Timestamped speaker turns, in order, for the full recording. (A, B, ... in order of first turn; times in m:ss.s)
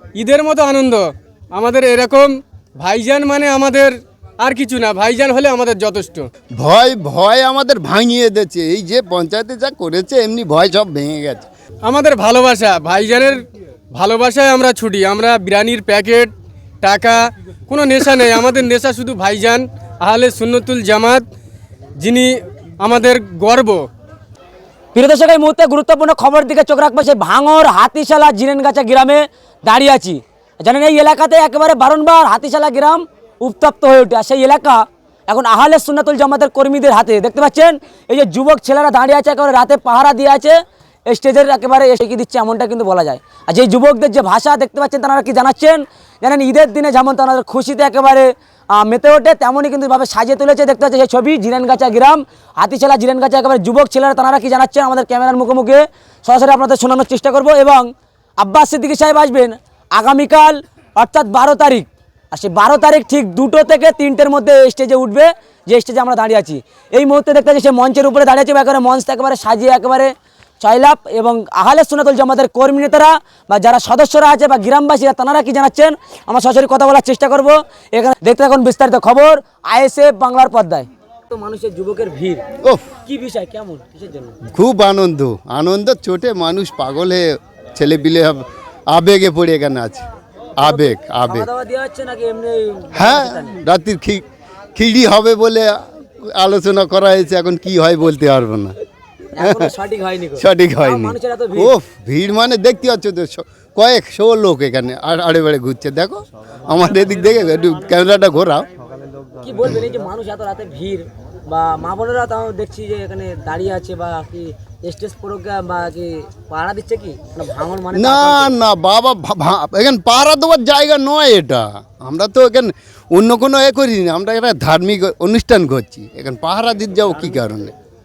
0:00.2-0:06.3 A
0:06.6-0:11.5 B
0:11.8-0:21.3 A
0:22.0-0:23.8 A
0:24.9-1:22.4 C
1:23.1-1:24.4 C
1:24.5-1:30.1 B
1:30.6-1:31.5 B
1:30.6-1:33.6 C
1:33.0-1:34.2 B
1:34.8-1:38.8 B
1:39.3-1:41.7 C
1:39.4-1:39.7 B
1:40.4-1:48.7 B
1:49.4-1:58.5 C
1:57.9-2:07.7 B